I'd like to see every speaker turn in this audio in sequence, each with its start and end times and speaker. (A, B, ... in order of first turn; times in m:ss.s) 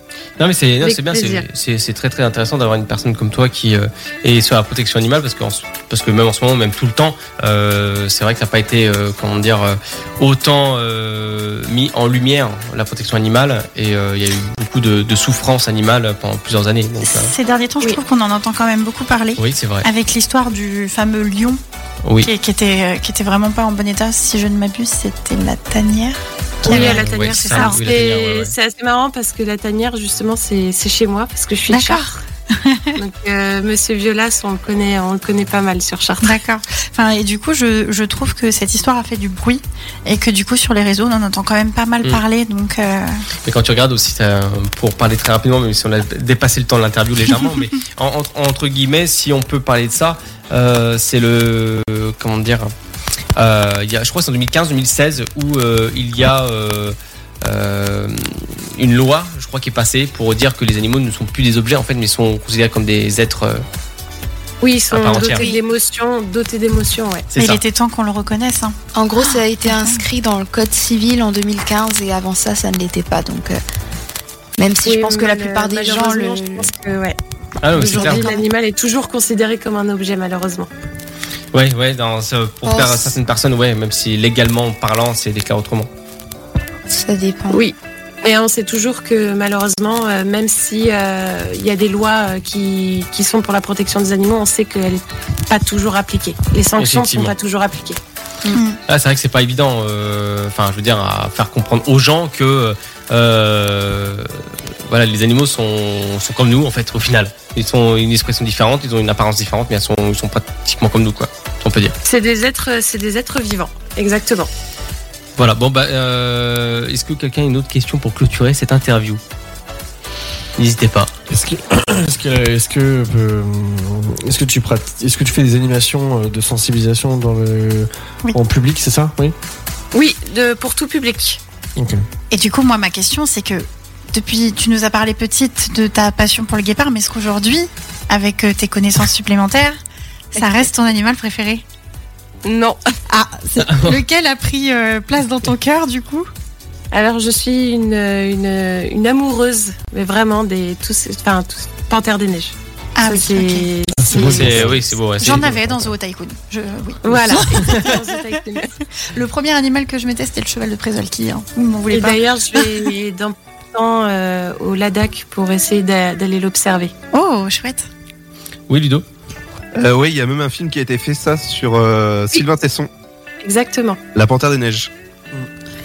0:00.4-0:17.3 A
0:00.8-0:01.5 B
0:17.0-0:21.6 C
0:19.4-0:19.9 A
0:22.0-0:22.3 A
0:22.2-0:28.0 C
0:26.6-0:28.5 A
0:26.6-0:32.2 B
0:31.7-0:33.0 C
0:33.0-0:36.4 B
0:36.2-0:43.3 C
0:43.4-0:52.7 A
0:53.4-1:03.6 A
1:04.6-1:07.3 B
1:04.9-1:05.5 A
1:05.2-1:05.6 D
1:07.3-1:07.6 A
1:07.4-1:10.0 C
1:09.0-1:13.6 D
1:14.6-1:16.7 D
1:14.8-1:17.2 B
1:17.6-1:18.3 A
1:17.7-1:20.7 B
1:17.8-1:18.5 D
1:21.5-1:25.9 A
1:22.6-1:23.1 D
1:26.9-1:27.6 D
1:27.5-1:38.0 B
1:36.8-1:37.3 A
1:38.5-1:38.8 C
1:38.9-1:52.0 A
1:52.0-1:54.5 B
1:55.4-1:59.2 A
2:00.6-2:01.1 A
2:01.3-2:09.3 E
2:09.9-2:11.4 B
2:11.8-2:12.0 E
2:12.3-2:19.8 C
2:20.3-2:21.6 C
2:20.4-2:20.7 B
2:22.4-2:22.8 B
2:23.1-2:26.3 C
2:23.6-2:24.0 A
2:26.9-2:34.8 B
2:33.0-2:33.7 C
2:34.0-2:34.9 E
2:34.2-2:35.9 A
2:35.2-2:38.2 C
2:37.0-2:38.7 B
2:39.1-2:42.8 C
2:41.9-2:46.9 B
2:47.1-2:47.9 C
2:48.7-2:49.0 A
2:49.7-2:52.9 F
2:53.4-2:54.0 B
2:54.2-2:54.9 F